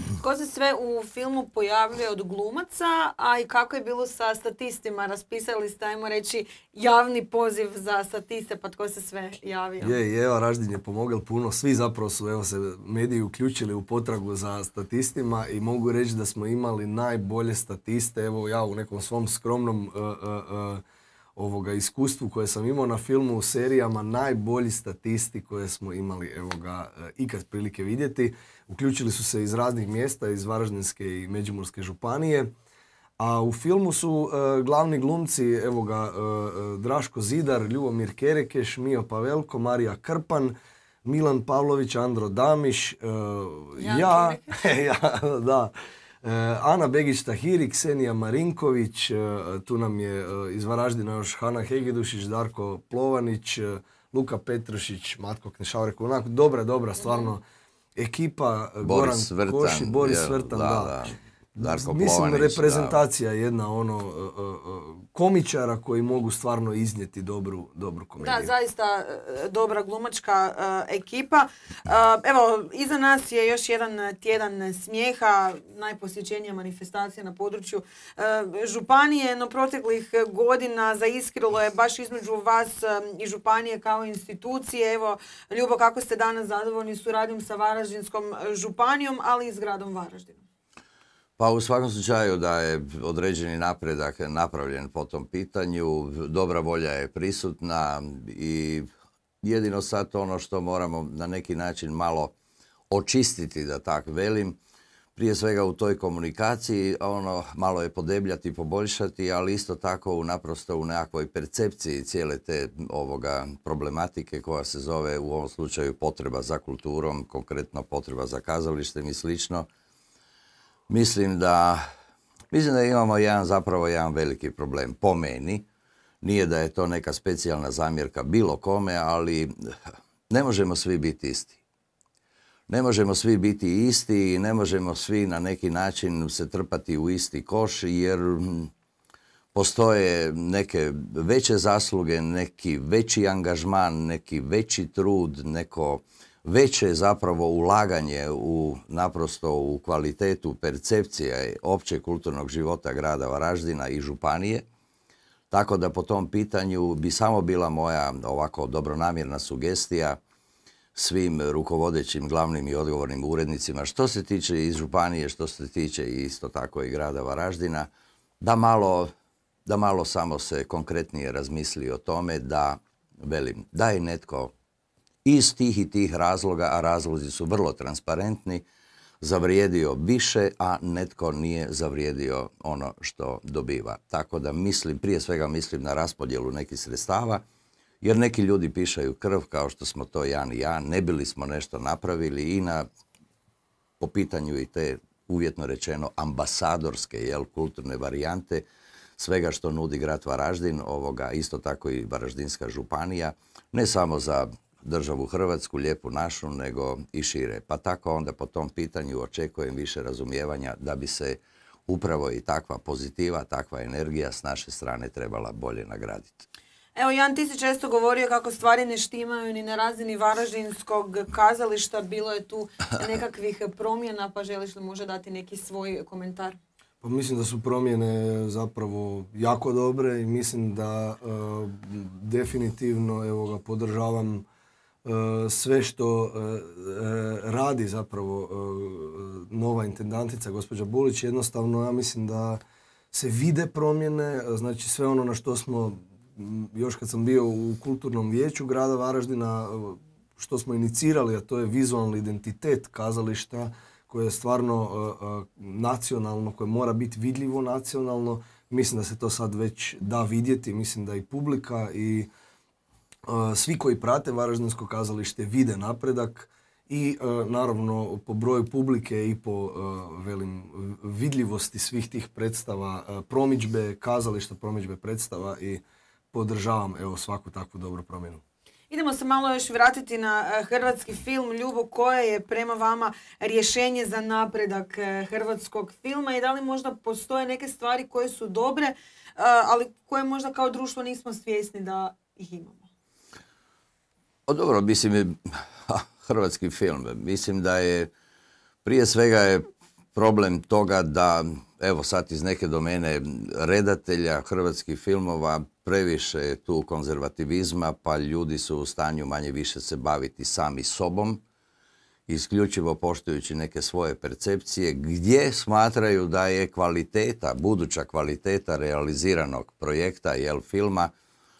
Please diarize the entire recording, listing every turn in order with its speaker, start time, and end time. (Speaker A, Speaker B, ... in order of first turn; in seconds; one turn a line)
Speaker A: 0.2-10.0
Speaker B: 9.8-20.8
Speaker B: 21.4-32.5
Speaker B: 33.2-57.4
Speaker A: 43.8-44.6
Speaker B: 58.0-61.0
Speaker C: 58.8-63.0
Speaker B: 61.5-68.5
Speaker A: 68.2-90.4
Speaker C: 91.4-98.9
Speaker C: 99.4-102.3
Speaker C: 102.9-104.6
Speaker C: 105.2-119.7
Speaker C: 120.9-121.8
Speaker C: 122.5-125.7
Speaker C: 126.2-129.7
Speaker C: 130.3-131.6
Speaker C: 132.7-138.7
Speaker C: 139.5-154.6
Speaker C: 155.5-160.2
Speaker C: 160.9-167.9
Speaker C: 168.4-169.1
Speaker C: 169.7-174.5
Speaker C: 175.2-178.6
Speaker C: 179.2-187.4
Speaker C: 188.0-192.8
Speaker C: 194.0-198.6
Speaker C: 199.2-216.4
Speaker A: 216.9-226.6
Speaker B: 227.0-234.4
Speaker B: 235.0-262.3
Speaker B: 263.2-278.4
Speaker A: 278.9-292.9
Speaker C: 294.5-298.1
Speaker C: 298.8-311.4
Speaker C: 312.3-321.1